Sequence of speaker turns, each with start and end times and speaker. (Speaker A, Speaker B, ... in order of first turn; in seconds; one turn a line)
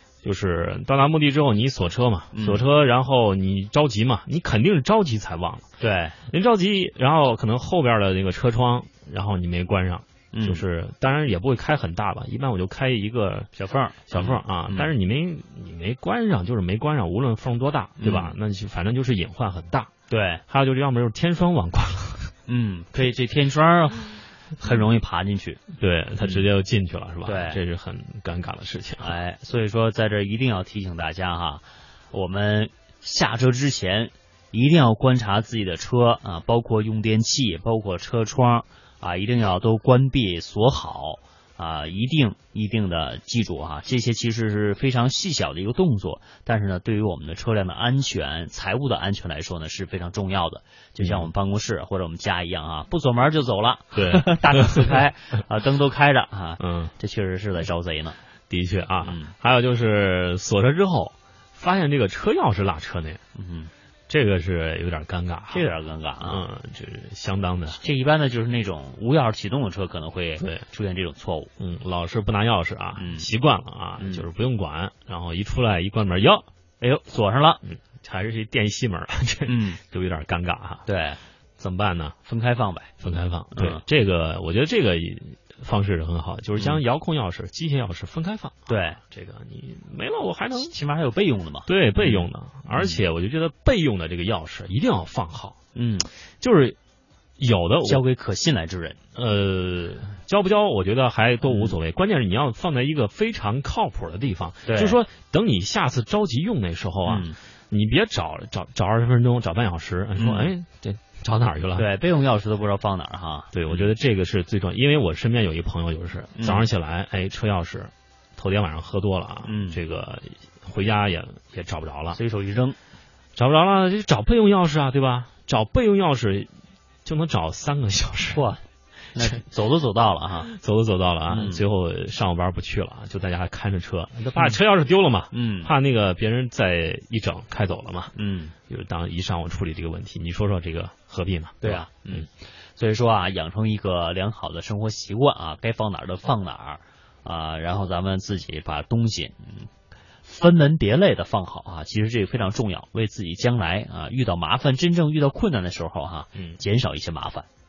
Speaker A: 0.2-5.6
Speaker B: 2.3-2.6
Speaker B: 5.8-6.1
Speaker A: 6.3-13.5
Speaker B: 10.3-10.6
Speaker B: 13.5-14.9
Speaker A: 14.1-19.9
Speaker B: 18.0-18.4
Speaker B: 20.1-20.4
Speaker A: 20.5-22.3
Speaker B: 22.5-25.6
Speaker A: 25.8-29.1
Speaker B: 27.2-27.6
Speaker B: 29.0-58.2
Speaker A: 51.0-51.3
Speaker A: 53.9-55.0
Speaker A: 56.6-56.9
Speaker A: 58.5-63.2
Speaker B: 59.0-59.3
Speaker B: 63.3-63.7
Speaker A: 64.1-65.7
Speaker B: 65.5-66.4
Speaker A: 66.2-67.8
Speaker B: 67.7-71.5
Speaker A: 71.6-76.5
Speaker B: 73.0-73.3
Speaker B: 74.0-74.3
Speaker B: 76.8-77.6
Speaker A: 77.6-80.8
Speaker B: 79.5-79.8
Speaker B: 80.8-81.2
Speaker A: 81.6-82.2
Speaker B: 82.2-82.9
Speaker A: 83.0-90.7
Speaker B: 83.5-83.8
Speaker B: 86.6-86.8
Speaker B: 88.7-89.0
Speaker B: 90.5-93.0
Speaker A: 91.7-95.6
Speaker B: 95.8-96.1
Speaker A: 96.4-96.8
Speaker A: 97.4-98.0
Speaker B: 97.8-99.0
Speaker A: 99.1-111.9
Speaker B: 101.4-101.8
Speaker B: 104.6-105.0
Speaker B: 107.1-107.4
Speaker B: 110.2-110.5
Speaker B: 111.8-113.9
Speaker A: 113.5-122.2
Speaker B: 116.3-116.7
Speaker B: 119.5-119.8
Speaker B: 122.1-122.8
Speaker A: 123.3-126.5
Speaker A: 127.0-128.4
Speaker B: 128.3-130.5
Speaker A: 130.4-138.1
Speaker B: 131.3-131.6
Speaker B: 135.3-135.7
Speaker B: 138.1-138.5
Speaker A: 138.7-142.3
Speaker B: 141.6-149.7
Speaker B: 150.2-157.5
Speaker A: 156.3-156.6